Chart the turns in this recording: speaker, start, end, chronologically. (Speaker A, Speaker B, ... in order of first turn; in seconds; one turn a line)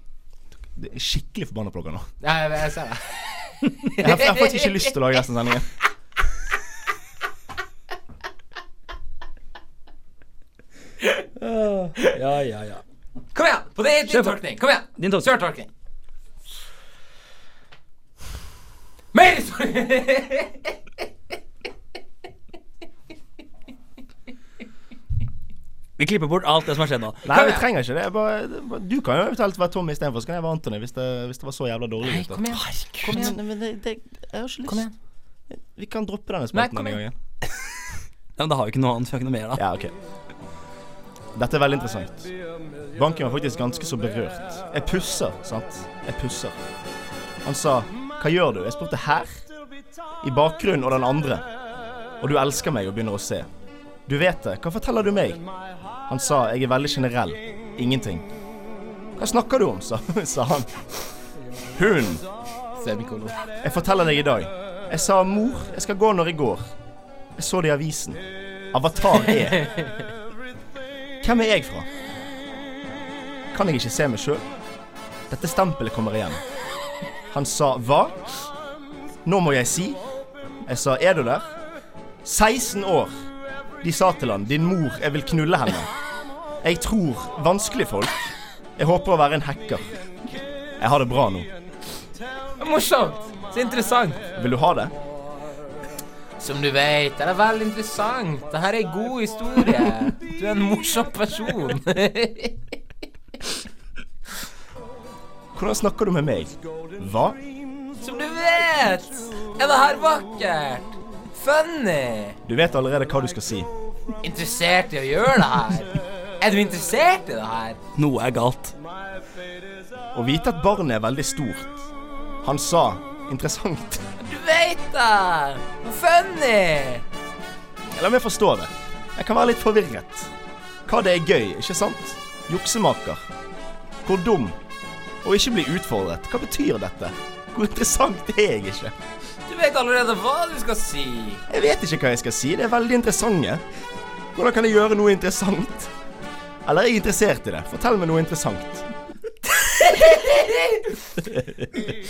Speaker A: 0.7-2.1
Speaker B: 2.2-4.8
Speaker A: 4.0-5.7
Speaker C: 11.4-12.8
Speaker B: 13.3-15.7
Speaker C: 14.1-14.4
Speaker C: 15.0-15.3
Speaker B: 19.1-20.6
Speaker C: 26.0-27.3
Speaker A: 27.2-34.9
Speaker B: 27.3-27.6
Speaker B: 32.0-33.4
Speaker B: 34.7-34.9
Speaker A: 35.5-37.1
Speaker B: 36.5-37.0
Speaker C: 38.4-39.6
Speaker A: 39.6-39.9
Speaker A: 41.3-42.3
Speaker A: 42.9-46.5
Speaker A: 47.4-49.4
Speaker A: 50.2-51.5
Speaker A: 52.2-53.5
Speaker A: 54.1-55.4
Speaker A: 56.1-58.2
Speaker A: 59.2-60.8
Speaker A: 61.7-62.2
Speaker B: 62.8-63.4
Speaker A: 63.6-66.7
Speaker A: 67.3-68.2
Speaker A: 68.7-69.7
Speaker B: 69.6-69.9
Speaker A: 71.2-71.9
Speaker A: 73.5-74.5
Speaker A: 75.3-76.4
Speaker A: 77.3-78.2
Speaker A: 79.2-80.0
Speaker A: 80.7-81.5
Speaker A: 82.2-83.1
Speaker A: 83.8-85.9
Speaker A: 86.6-89.9
Speaker A: 90.8-91.5
Speaker B: 92.6-94.2
Speaker A: 94.3-94.9
Speaker B: 96.4-102.6
Speaker A: 105.5-107.4
Speaker B: 108.0-112.4
Speaker A: 112.4-113.7
Speaker B: 114.2-117.8
Speaker C: 118.0-118.7
Speaker A: 120.1-121.9
Speaker A: 122.4-124.0
Speaker B: 124.2-127.0
Speaker A: 127.9-130.3
Speaker A: 130.9-133.2
Speaker A: 134.0-134.6
Speaker A: 135.2-138.9
Speaker B: 139.5-141.4
Speaker A: 141.5-143.6
Speaker A: 144.3-145.9
Speaker A: 146.6-148.9
Speaker B: 149.5-151.0
Speaker A: 151.3-151.7